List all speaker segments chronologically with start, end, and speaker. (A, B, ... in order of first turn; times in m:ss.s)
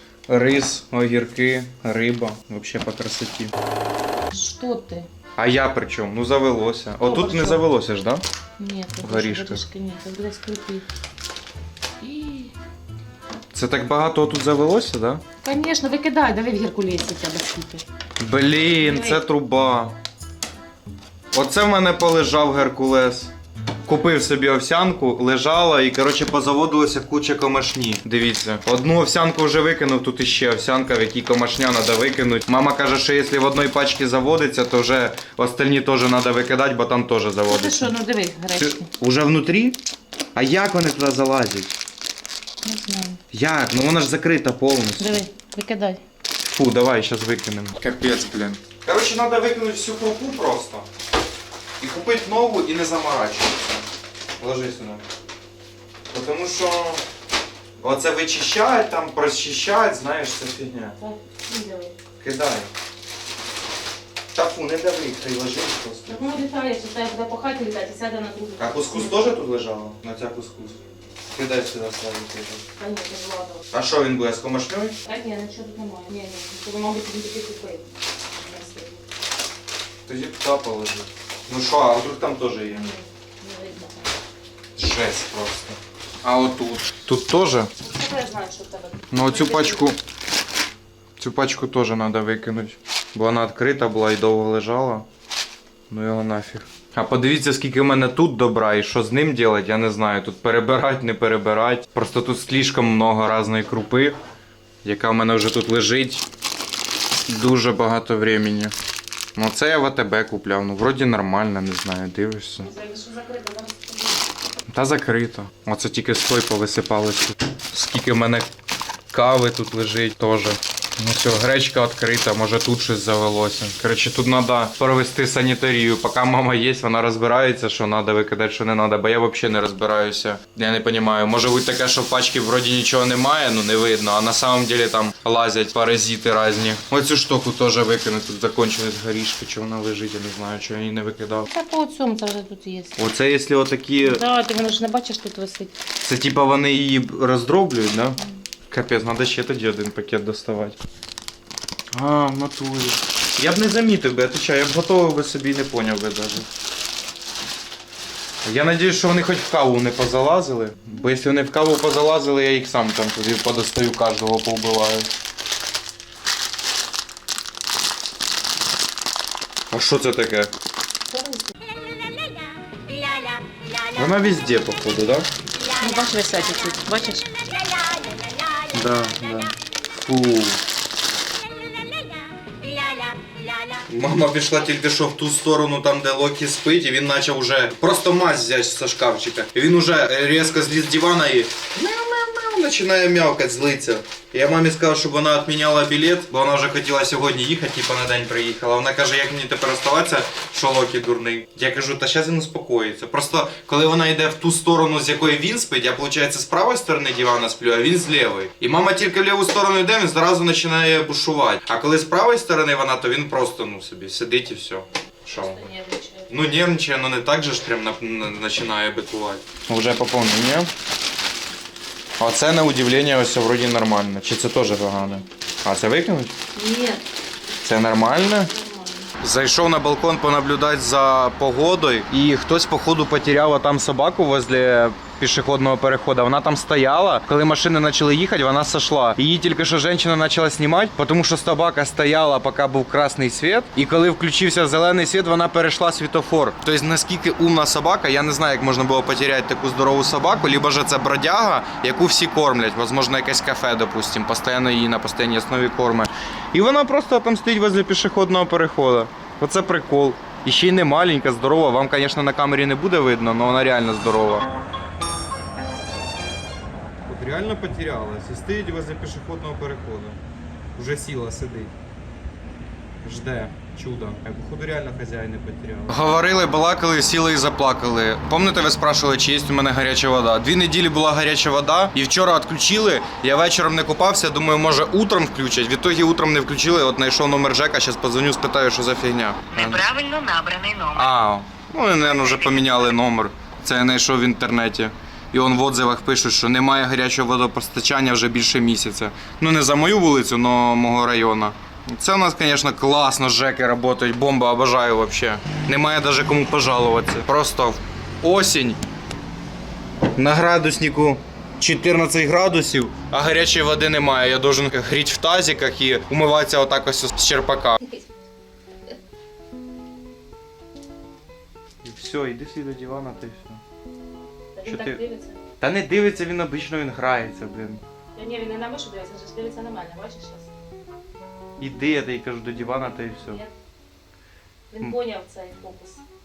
0:00.3-0:03.5 A
0:04.3-0:05.1 B
0:05.4-0:08.2 A
0:07.0-0:07.6 B
0:08.6-0:10.8 B
0:09.0-0:09.6 A
0:12.0-0:12.5 B
0:13.5-0:15.2 A
0:15.4-0:17.8 B
0:18.2-0:20.0 A
0:18.8-0:19.2 B
0:21.3-0:23.3 A
0:23.8-0:37.9 A
0:37.5-0:38.9 B
0:38.5-0:39.8 A
0:40.3-0:41.7 A
0:42.6-0:43.2 B
0:43.3-0:45.2 A
0:45.0-0:46.0 B
0:46.5-0:50.8 A
0:51.8-0:53.8 A
0:54.4-0:55.0 A
0:56.1-0:57.0 A
0:57.8-1:01.0 A
1:01.0-1:01.9 B
1:02.2-1:02.7 A
1:04.3-1:06.2 A
1:06.1-1:09.2 B
1:08.6-1:12.6 A
1:12.8-1:13.6 B
1:13.7-1:15.0 A
1:15.0-1:19.0 B
1:20.0-1:22.8 A
1:22.7-1:24.1 B
1:24.8-1:27.7 A
1:27.8-1:29.9 B
1:29.1-1:30.0 A
1:31.2-1:35.0 A
1:35.9-1:44.2 A
1:44.8-1:46.2 A
1:47.3-1:48.7 A
1:49.4-1:52.7 A
1:52.6-1:54.2 B
1:54.7-1:58.5 A
1:59.1-2:21.5 A
2:21.5-2:23.0 B
2:23.0-2:24.2 A
2:24.0-2:25.7 B
2:26.0-2:28.2 A
2:28.7-2:30.8 A
2:31.9-2:36.4 A
2:38.4-2:45.1 A
2:49.7-2:50.5 A
2:51.1-2:51.5 B
2:53.9-2:55.3 A
2:55.8-2:57.3 B
2:58.7-3:00.6 A
3:03.9-3:35.6 A
3:35.3-3:36.5 B
3:36.3-3:40.7 A
3:42.2-3:46.3 A
3:46.5-3:47.0 B
3:47.6-3:48.5 A
3:48.4-3:49.1 B
3:49.2-4:24.5 A
4:27.1-4:30.2 A
4:30.8-4:31.7 A
4:33.0-4:49.8 A
4:49.5-4:51.1 C
4:50.9-5:08.8 A
4:52.2-4:52.8 C
5:10.2-5:17.8 A
5:21.8-5:23.6 A
5:24.5-5:25.4 B
5:24.6-5:25.0 A
5:25.6-5:27.8 A
5:28.1-5:30.5 B
5:31.6-5:33.4 A
5:33.2-5:33.5 B
5:34.7-5:36.0 B